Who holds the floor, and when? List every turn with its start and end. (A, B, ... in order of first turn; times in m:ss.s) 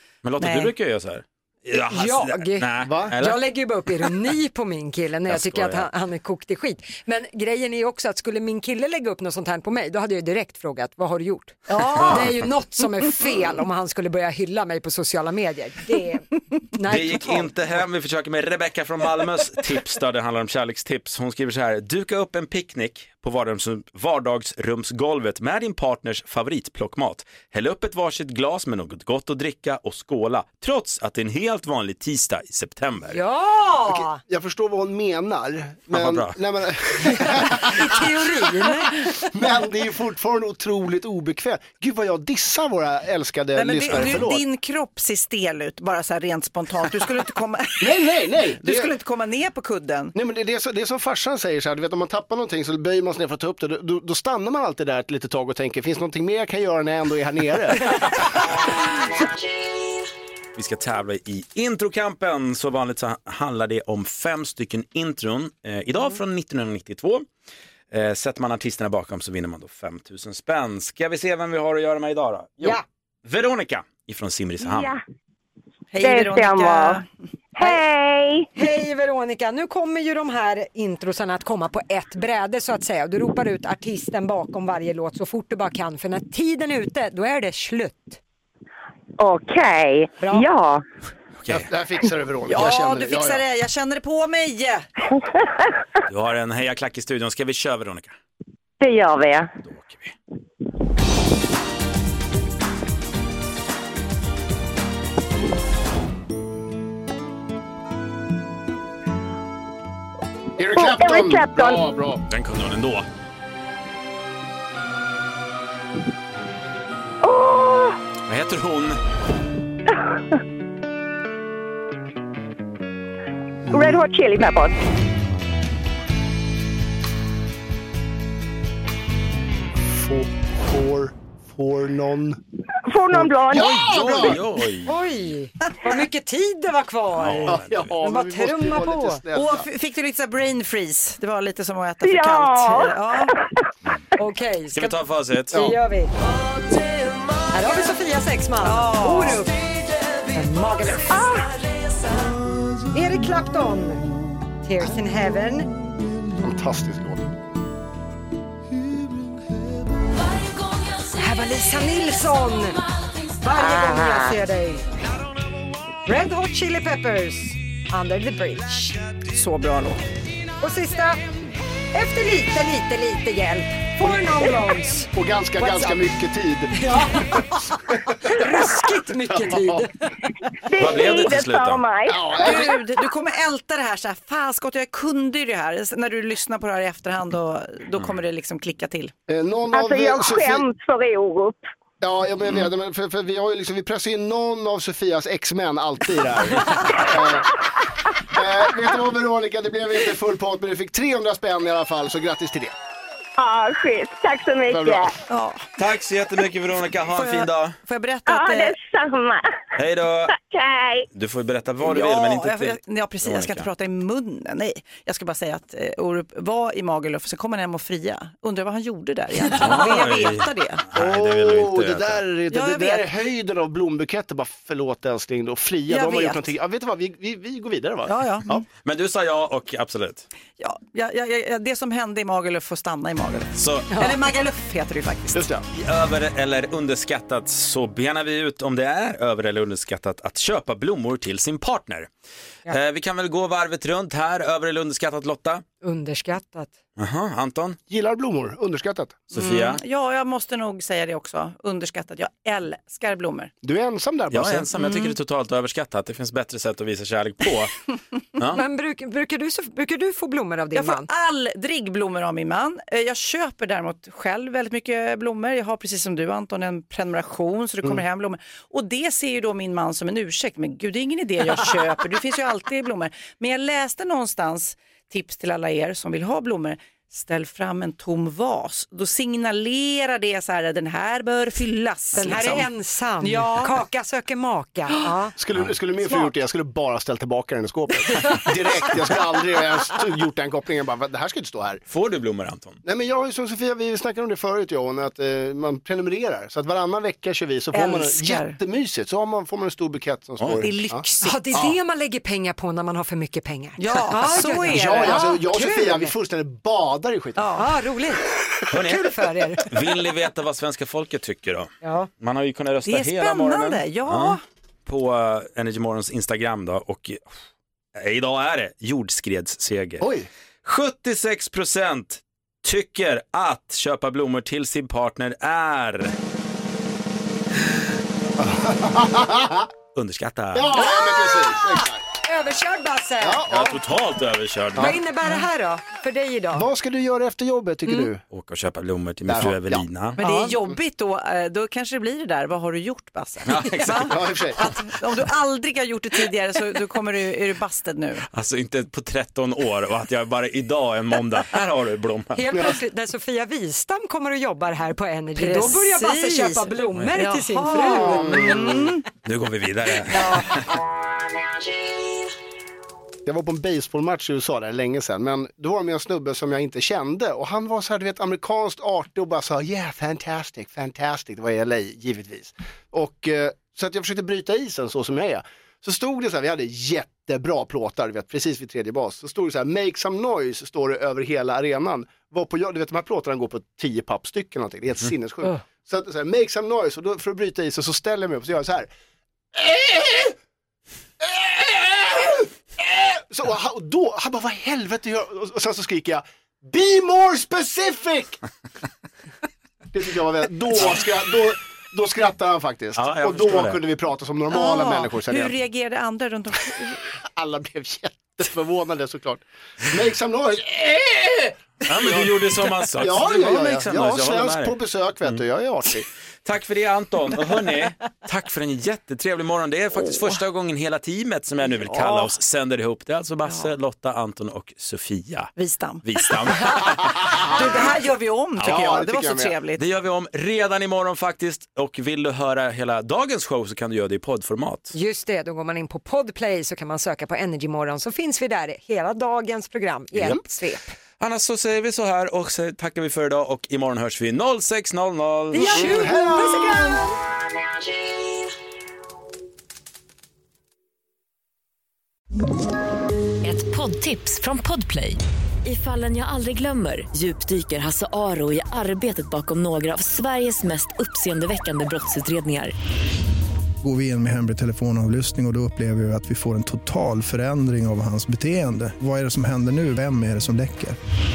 0:00.2-0:03.5 A
0:00.4-0:00.7 B
0:01.8-0:17.6 C
0:02.8-0:03.2 D
0:05.3-0:05.9 A
0:11.7-0:12.3 B
0:16.9-0:33.2 A
0:33.1-0:34.2 C
0:34.2-0:37.9 D
0:35.9-0:36.4 A
0:37.6-0:39.2 C
0:39.3-0:44.4 D
0:43.5-0:48.0 B
0:43.9-0:44.2 A
0:47.8-0:48.9 D
0:48.6-0:50.1 B
0:50.1-0:58.1 D
1:00.6-1:07.2 A
1:07.9-1:14.9 A
1:14.6-1:15.0 E
1:15.9-1:17.0 B
1:16.0-1:17.0 E
1:17.5-1:18.5 E
1:18.6-1:28.2 C
1:29.2-1:30.8 E
1:30.2-1:30.4 C
1:31.4-1:31.7 A
1:31.5-1:33.4 D
1:32.5-1:34.9 B
1:36.0-1:38.2 A
1:38.8-1:39.5 E
1:39.6-1:40.1 A
1:50.6-1:52.2 D
1:50.7-1:51.8 E
1:52.3-1:53.1 A
1:57.2-1:58.0 E
1:58.3-1:59.0 A
2:03.7-2:04.8 E
2:09.8-2:12.4 D
2:12.9-2:14.2 E
2:13.1-2:14.4 D
2:13.6-2:14.9 A
2:14.8-2:19.2 C
2:17.2-2:17.9 A
2:17.4-2:19.7 D
2:19.3-2:23.3 B
2:22.0-2:23.3 E
2:24.2-2:25.0 C
2:24.7-2:25.6 A
2:25.5-2:26.1 C
2:27.5-2:29.6 C
2:28.6-2:29.4 B
2:30.2-2:31.4 C
2:31.1-2:31.5 E
2:32.9-2:35.7 C
2:36.4-2:37.3 D
2:41.1-2:42.8 C
2:43.4-2:44.8 C
2:43.5-2:44.4 E
2:46.0-2:49.0 C
2:49.3-2:50.0 B
2:50.6-2:51.2 C
2:51.9-2:56.0 C
2:54.0-2:54.5 D
2:55.1-2:57.4 D
2:56.7-3:00.4 C
2:59.2-2:59.9 D
3:00.6-3:02.7 E
3:00.8-3:01.8 A
3:02.0-3:02.8 D
3:02.4-3:09.1 B
3:09.3-3:10.7 D
3:09.7-3:11.7 E
3:12.0-3:17.6 D
3:18.3-3:22.7 D
3:23.4-3:25.1 E
3:24.7-3:25.1 D
3:25.3-3:25.7 B
3:25.8-3:27.8 A
3:27.1-3:28.8 B
3:28.2-3:29.6 E
3:29.8-3:30.3 A
3:30.3-3:31.0 E
3:31.1-3:33.7 A
3:31.8-3:40.8 B
3:39.5-3:42.2 A
3:40.9-3:48.6 D
3:42.5-3:43.1 B
3:45.9-3:46.4 B
3:48.1-3:48.6 B
3:48.8-3:50.3 A
3:50.6-3:55.5 B
3:53.6-3:54.0 A
3:55.3-3:55.6 D
3:55.7-4:02.1 A
4:02.7-4:05.6 A
4:05.8-4:06.7 C
4:07.0-4:07.8 A
4:07.9-4:09.2 D
4:09.3-4:09.8 A
4:09.4-4:13.5 B
4:13.6-4:14.7 D
4:14.3-4:17.7 A
4:18.5-4:21.1 C
4:20.7-4:42.7 B
4:42.1-4:45.3 C
4:43.2-4:43.8 B
4:45.4-4:51.8 D
4:51.9-4:52.8 A
4:52.8-5:01.7 D
4:57.7-4:58.6 B
5:00.4-5:00.6 A
5:00.6-5:01.6 B
5:01.2-5:06.1 C
5:03.8-5:05.3 B
5:04.6-5:07.6 D
5:07.4-5:07.7 B
5:07.6-5:08.2 C
5:08.7-5:09.1 A
5:08.7-5:09.7 C
5:09.6-5:11.7 A
5:11.8-5:12.1 C
5:12.2-5:17.3 A
5:12.8-5:14.4 B
5:17.9-5:20.1 A
5:20.0-5:20.3 D
5:20.6-5:26.1 A
5:28.4-5:29.7 D
5:29.9-5:30.7 A
5:30.5-5:32.0 D
5:30.7-5:31.6 C
5:32.2-5:33.4 C
5:33.2-5:33.8 D
5:33.5-5:35.0 A
5:34.7-5:35.0 D
5:34.8-5:36.7 C
5:36.5-5:38.2 D
5:38.3-5:40.2 A
5:39.2-5:40.8 D
5:40.2-5:48.2 B
5:43.5-5:44.2 A
5:44.0-5:44.7 D
5:48.3-5:52.4 A
5:52.3-5:58.7 C
5:52.5-5:52.8 D
5:55.4-5:59.0 B
5:57.9-5:58.9 D
5:59.2-6:00.7 A
6:00.0-6:00.6 B
6:03.2-6:28.9 D
6:29.5-6:30.4 D
6:31.2-6:38.4 D
6:39.9-6:45.5 D
6:43.0-6:43.8 A
6:44.5-6:47.1 B
6:47.2-6:56.1 D
6:51.9-6:55.4 A
6:56.4-7:05.5 A
7:00.0-7:00.4 B
7:01.6-7:02.3 B
7:03.4-7:03.7 B
7:05.6-7:09.8 B
7:06.0-7:07.0 A
7:08.6-7:08.8 A
7:08.6-7:09.5 D
7:09.8-7:14.9 A
7:14.9-7:20.9 C
7:21.2-7:25.9 A
7:25.5-7:27.0 C
7:25.6-7:27.0 D
7:33.4-7:42.7 F
7:43.8-7:51.0 G